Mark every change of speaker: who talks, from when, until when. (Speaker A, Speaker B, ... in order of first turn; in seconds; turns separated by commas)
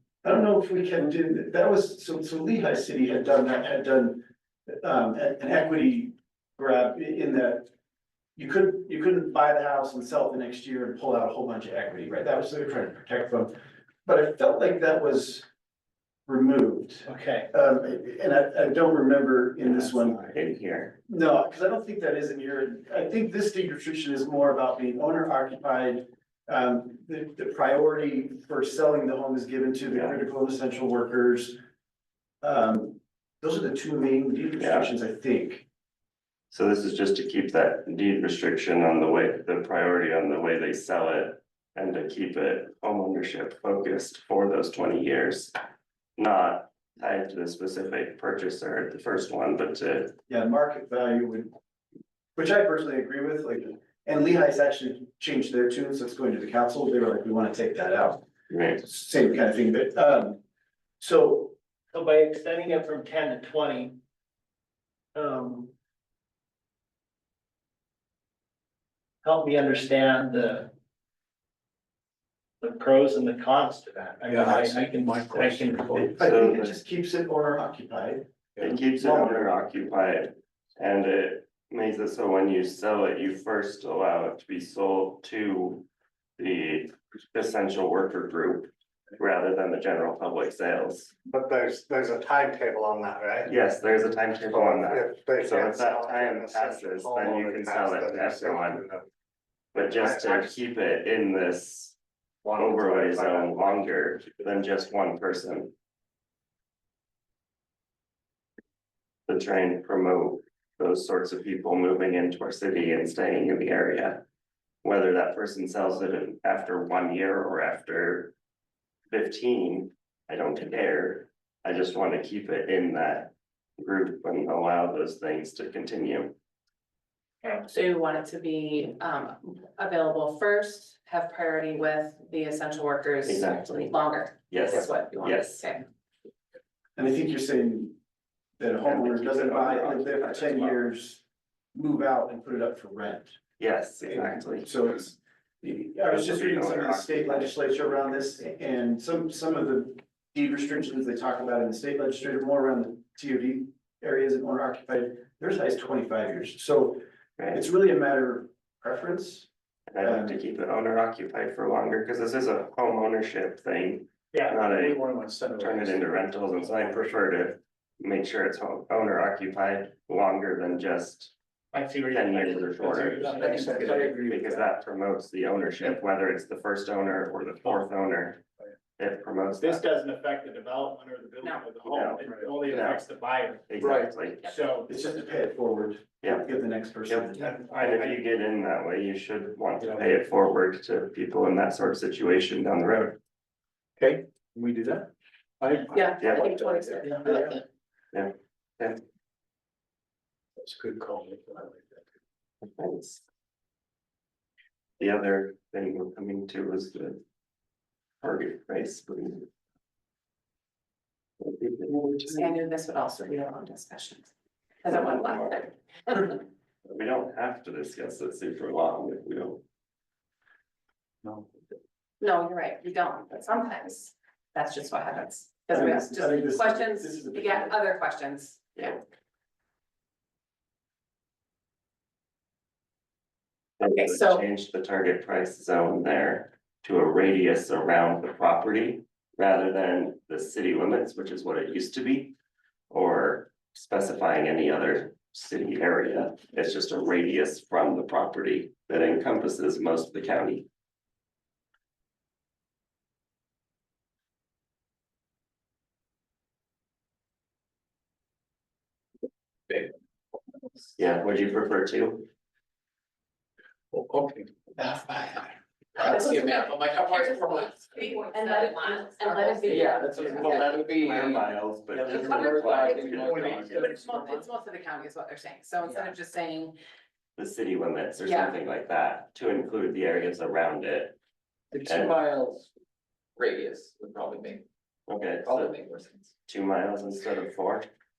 Speaker A: 0.2-7.7, Speaker A: 8.3-13.5, Speaker A: 14.0-15.4, Speaker A: 16.3-20.3, Speaker B: 17.1-17.5, Speaker C: 19.6-21.0, Speaker B: 19.7-20.3, Speaker A: 21.1-31.6, Speaker A: 32.4-35.6, Speaker C: 34.6-34.9, Speaker C: 36.5-45.5, Speaker C: 46.2-50.1, Speaker A: 50.3-51.5, Speaker A: 52.4-58.2, Speaker C: 58.5-58.8, Speaker A: 58.8-60.4, Speaker A: 61.0-61.5, Speaker B: 61.9-64.0, Speaker B: 65.1-65.7, Speaker B: 69.2-70.7, Speaker B: 72.6-76.1, Speaker D: 74.3-76.2, Speaker A: 75.9-78.2, Speaker C: 76.2-76.7, Speaker C: 78.6-85.8, Speaker A: 79.0-79.3, Speaker C: 86.4-91.1, Speaker E: 91.3-93.5, Speaker C: 93.5-98.8, Speaker E: 94.5-99.0, Speaker C: 99.7-102.0, Speaker E: 99.9-100.6, Speaker E: 102.4-103.5, Speaker C: 102.6-105.7, Speaker C: 109.3-114.2, Speaker C: 114.8-118.3, Speaker C: 119.1-126.3, Speaker F: 127.4-135.9, Speaker C: 133.2-133.9, Speaker C: 134.5-135.6, Speaker A: 136.9-137.9, Speaker A: 138.6-141.2, Speaker C: 138.8-140.8, Speaker A: 141.7-143.4, Speaker C: 143.6-144.7, Speaker A: 144.0-157.0, Speaker C: 146.1-148.1, Speaker A: 157.5-159.5, Speaker C: 159.9-165.0, Speaker A: 160.0-160.4, Speaker E: 164.4-164.8, Speaker D: 164.8-165.8, Speaker C: 165.6-171.3, Speaker E: 166.8-167.0, Speaker B: 171.7-174.2, Speaker C: 172.1-178.4, Speaker E: 173.2-174.6, Speaker C: 179.0-179.8, Speaker B: 179.6-183.8, Speaker C: 181.8-183.0, Speaker E: 182.2-182.5, Speaker C: 183.7-184.4, Speaker B: 184.4-184.9, Speaker A: 184.9-187.6, Speaker C: 186.2-186.5, Speaker C: 187.1-193.2, Speaker B: 187.4-188.2, Speaker D: 194.0-195.1, Speaker D: 195.6-197.6, Speaker F: 195.9-197.6, Speaker C: 196.2-196.5, Speaker C: 198.1-199.0, Speaker D: 200.6-202.0, Speaker C: 202.6-203.2, Speaker C: 205.0-207.2, Speaker C: 208.2-209.5, Speaker C: 211.4-212.5, Speaker F: 212.3-214.3, Speaker F: 214.8-216.4, Speaker C: 214.9-215.7, Speaker C: 216.8-219.6, Speaker F: 222.2-228.9, Speaker A: 225.7-227.8, Speaker C: 233.8-242.3, Speaker F: 233.8-234.4, Speaker C: 242.9-250.7, Speaker G: 259.7-259.9, Speaker C: 261.0-262.2, Speaker D: 263.9-264.5, Speaker G: 264.8-274.5, Speaker F: 266.0-270.6, Speaker C: 270.1-274.0, Speaker F: 272.6-276.8, Speaker G: 275.8-276.1, Speaker C: 277.4-281.2, Speaker F: 278.2-278.5, Speaker G: 281.7-282.7, Speaker C: 281.8-282.2, Speaker G: 283.4-284.6, Speaker C: 285.1-285.8, Speaker G: 285.4-286.3, Speaker C: 286.5-287.9